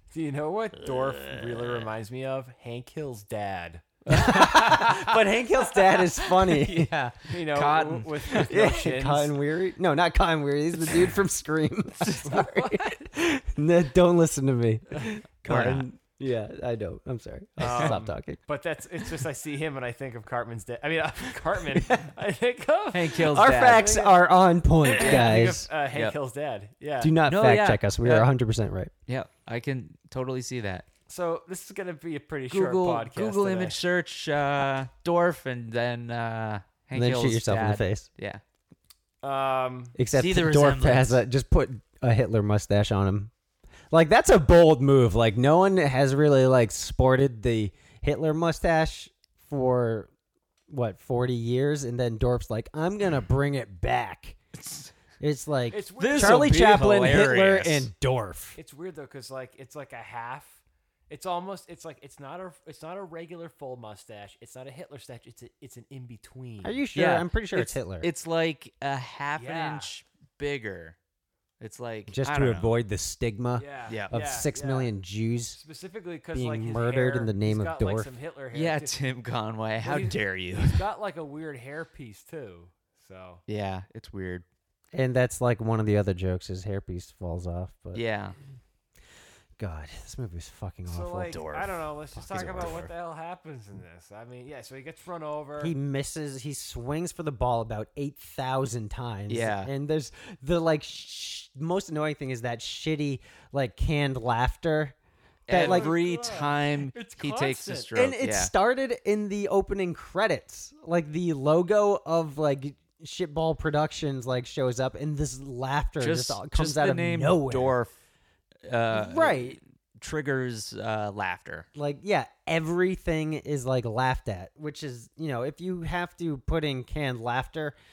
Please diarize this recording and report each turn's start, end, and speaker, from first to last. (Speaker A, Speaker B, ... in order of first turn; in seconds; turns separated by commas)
Speaker A: 0.1-4.0, Speaker B: 1.2-1.5, Speaker B: 4.1-5.1, Speaker C: 4.1-6.9, Speaker B: 6.3-8.3, Speaker A: 7.3-9.3, Speaker C: 8.4-18.4, Speaker A: 12.2-13.0, Speaker B: 15.4-15.9, Speaker A: 17.6-24.2, Speaker B: 17.6-17.9, Speaker B: 22.9-23.8, Speaker C: 23.2-25.7, Speaker A: 24.9-27.1, Speaker B: 25.0-25.4, Speaker C: 27.0-28.9, Speaker B: 27.3-28.2, Speaker B: 29.1-30.9, Speaker A: 31.1-33.8, Speaker B: 32.5-38.4, Speaker C: 36.9-38.1, Speaker A: 39.2-40.0, Speaker C: 40.0-43.3, Speaker B: 40.1-41.2, Speaker C: 43.9-50.1, Speaker C: 50.7-54.4, Speaker B: 54.6-54.9, Speaker C: 55.2-58.6, Speaker A: 55.7-57.0, Speaker B: 56.0-57.9, Speaker A: 58.6-66.8, Speaker C: 66.6-68.1, Speaker B: 66.9-71.0, Speaker A: 69.4-69.9, Speaker B: 71.6-72.7, Speaker C: 72.1-75.6, Speaker A: 73.6-74.9, Speaker B: 73.9-74.1, Speaker A: 75.5-79.0, Speaker C: 76.3-78.1, Speaker B: 78.5-80.8, Speaker A: 79.8-83.4, Speaker B: 83.5-84.4, Speaker C: 84.9-88.0, Speaker B: 87.9-88.3, Speaker C: 89.6-91.4, Speaker A: 90.9-95.7, Speaker B: 91.3-91.7, Speaker C: 92.2-92.9, Speaker B: 92.3-92.6, Speaker C: 95.6-104.9, Speaker B: 99.3-99.7, Speaker B: 105.5-108.5, Speaker C: 105.5-105.9, Speaker A: 105.5-107.9, Speaker C: 107.9-117.8, Speaker B: 116.0-117.9, Speaker B: 118.7-121.7, Speaker C: 118.9-119.6, Speaker C: 121.7-127.8